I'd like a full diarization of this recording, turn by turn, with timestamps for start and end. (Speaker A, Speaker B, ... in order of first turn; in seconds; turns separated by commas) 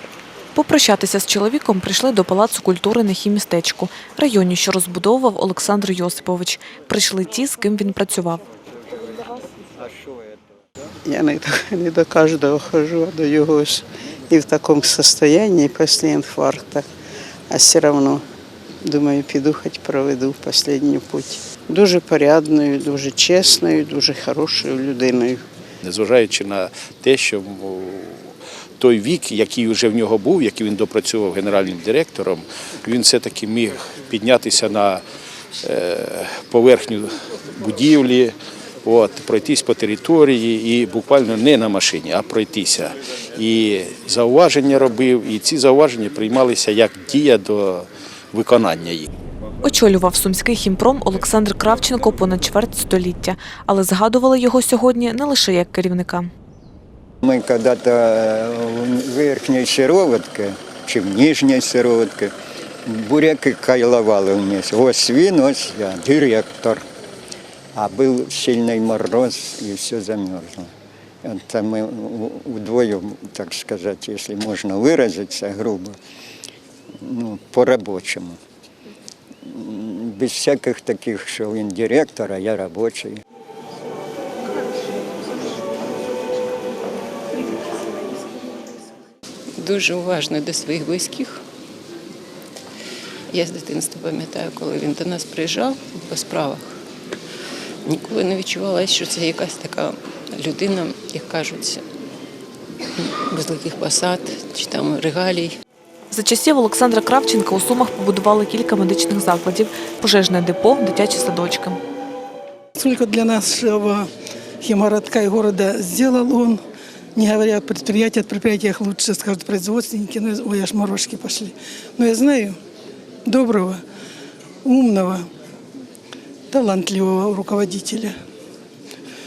Speaker A: 0.5-8.4, Speaker B: 11.0-16.9, Speaker B: 17.5-18.2, Speaker B: 18.8-25.4, Speaker C: 25.8-35.0, Speaker C: 35.6-38.3, Speaker C: 38.8-49.1, Speaker A: 49.6-56.3, Speaker D: 57.2-62.3, Speaker D: 62.9-66.8, Speaker D: 67.8-70.7, Speaker D: 71.2-76.0, Speaker D: 77.0-78.4, Speaker D: 79.5-83.2, Speaker E: 89.6-91.4, Speaker E: 93.3-96.7, Speaker E: 97.8-101.8, Speaker E: 103.0-105.5, Speaker A: 106.1-111.8, Speaker F: 112.8-114.1, Speaker F: 114.6-116.6, Speaker F: 117.2-122.6, Speaker F: 123.2-123.8, Speaker F: 124.7-125.3, Speaker F: 126.5-128.2